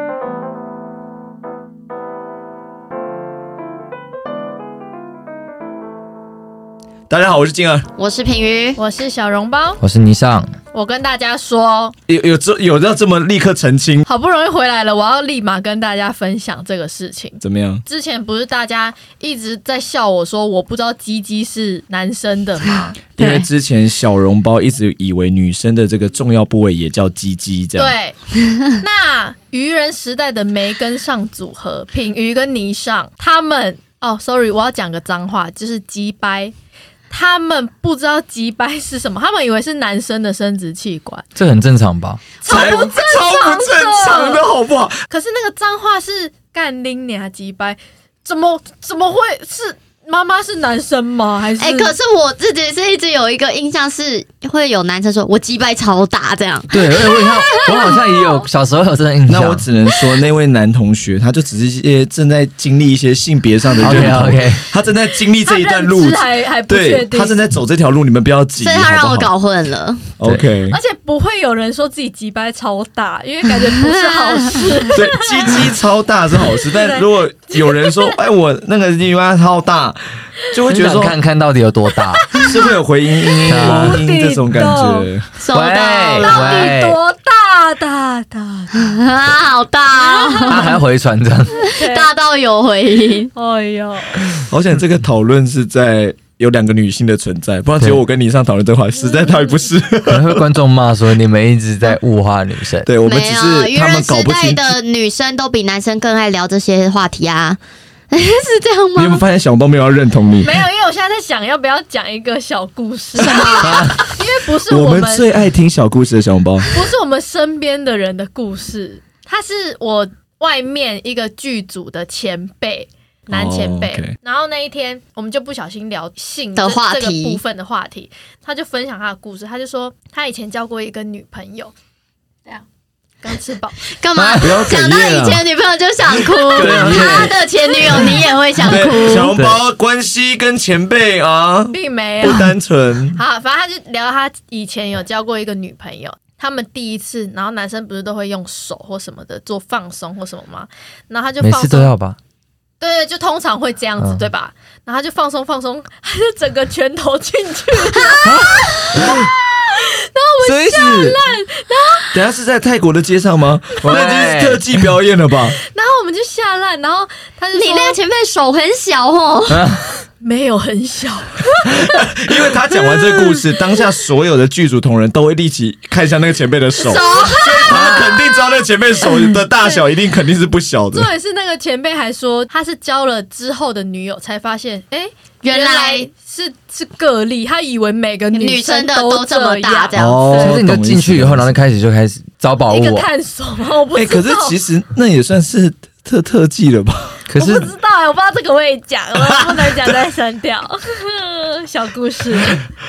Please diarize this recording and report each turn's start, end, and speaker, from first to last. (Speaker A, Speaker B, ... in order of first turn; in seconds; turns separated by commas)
Speaker A: 7.1-7.9, Speaker B: 8.0-8.8, Speaker C: 8.8-9.8, Speaker D: 9.8-10.5, Speaker C: 10.7-11.9, Speaker A: 12.1-14.1, Speaker C: 14.1-23.4, Speaker A: 17.4-17.8, Speaker A: 23.1-27.9, Speaker C: 27.8-28.2, Speaker C: 28.7-36.5, Speaker C: 37.1-41.2, Speaker D: 41.4-42.2, Speaker C: 42.4-44.4, Speaker A: 42.5-45.0, Speaker B: 42.5-42.9, Speaker C: 45.1-51.9, Speaker B: 51.6-58.1, Speaker D: 56.7-59.6, Speaker C: 57.7-58.0, Speaker A: 59.3-69.3, Speaker D: 63.8-64.7, Speaker C: 65.4-67.4, Speaker B: 68.6-70.1, Speaker A: 70.2-70.8, Speaker C: 70.7-75.7, Speaker B: 73.6-74.9, Speaker A: 74.9-81.2, Speaker C: 76.5-78.1, Speaker D: 80.7-82.4, Speaker C: 82.3-82.6, Speaker A: 82.4-85.3, Speaker D: 83.5-84.0, Speaker C: 83.5-85.1, Speaker B: 85.4-86.8, Speaker D: 85.5-87.0, Speaker C: 86.1-89.0, Speaker B: 88.7-90.8, Speaker C: 90.0-90.8, Speaker D: 90.5-91.7, Speaker B: 91.5-93.3, Speaker C: 91.6-92.1, Speaker C: 93.3-94.3, Speaker A: 94.5-100.4, Speaker D: 100.1-102.9, Speaker A: 102.8-104.8, Speaker B: 103.0-107.6, Speaker B: 108.1-109.2, Speaker A: 109.0-110.6, Speaker C: 110.4-115.3, Speaker B: 113.2-113.9, Speaker A: 113.3-113.9, Speaker D: 113.6-114.0, Speaker A: 114.7-116.7, Speaker C: 116.7-131.7, Speaker A: 123.3-124.1, Speaker B: 126.5-127.4, Speaker C: 133.2-133.8, Speaker B: 133.8-139.3, Speaker D: 134.1-134.5, Speaker A: 134.4-135.4, Speaker A: 136.3-137.4, Speaker D: 136.5-137.3, Speaker A: 138.6-143.2, Speaker D: 138.7-139.6, Speaker C: 141.7-142.5, Speaker C: 143.2-151.9, Speaker D: 151.4-152.2, Speaker C: 152.8-162.1, Speaker D: 154.0-154.2, Speaker B: 157.9-158.2, Speaker A: 160.4-161.2, Speaker A: 162.1-165.6, Speaker D: 163.8-164.8, Speaker C: 165.6-168.0, Speaker B: 167.5-169.7, Speaker D: 169.5-169.8, Speaker C: 170.2-172.0, Speaker A: 171.7-181.1, Speaker B: 176.8-177.8, Speaker C: 177.1-177.6, Speaker C: 180.9-190.6, Speaker B: 185.4-186.1, Speaker B: 188.3-190.3, Speaker A: 189.9-191.6, Speaker D: 190.3-193.1, Speaker C: 192.7-194.6, Speaker A: 193.9-197.2, Speaker D: 197.3-197.7, Speaker C: 197.3-202.6, Speaker A: 199.2-199.9